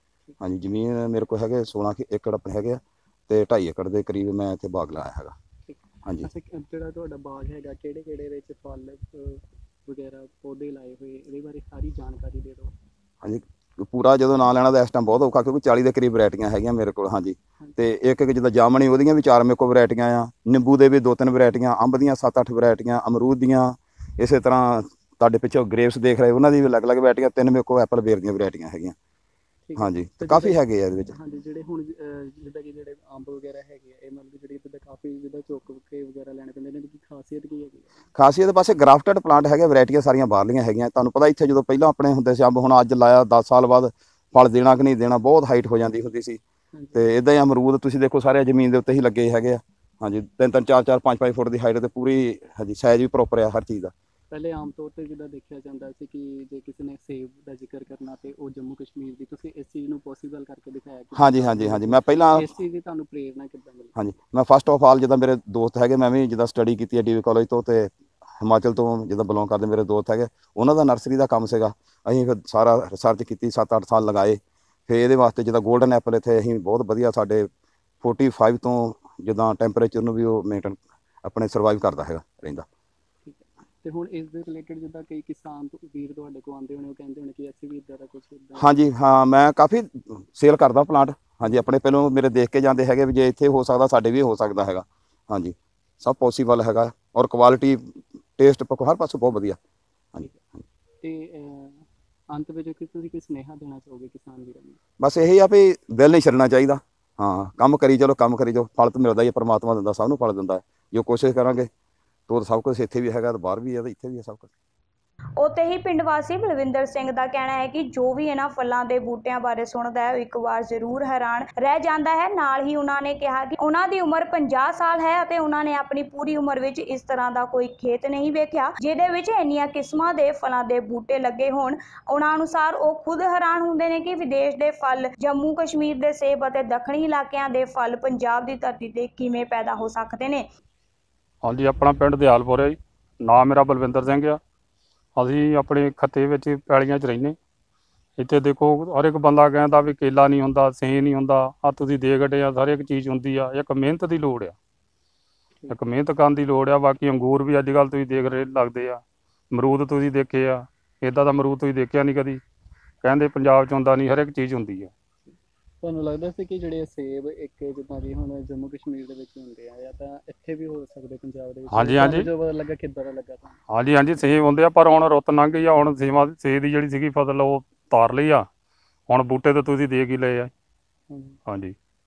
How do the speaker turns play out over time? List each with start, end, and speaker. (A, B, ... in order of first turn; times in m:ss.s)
0:00.4-0:05.3 A
0:05.7-0:12.7 B
0:13.2-0:29.0 A
0:29.6-0:38.0 B
0:29.8-0:31.1 A
0:38.1-0:46.4 A
0:46.7-0:47.1 B
0:46.9-0:53.9 A
0:54.3-1:04.0 B
1:01.2-1:02.5 A
1:04.0-1:17.5 A
1:18.0-1:22.6 A
1:23.2-1:28.7 B
1:28.6-1:39.6 A
1:41.0-1:44.8 B
1:45.0-1:51.7 A
1:52.3-1:54.5 A
1:55.4-2:20.4 C
2:21.4-2:24.4 D
2:25.2-2:27.4 D
2:28.2-2:34.6 D
2:35.7-2:42.4 D
2:43.0-2:44.9 D
2:45.3-2:53.6 B
2:51.7-2:52.3 D
2:53.7-2:58.5 D
2:59.1-3:00.5 D
3:01.1-3:01.4 B
3:01.5-3:01.7 D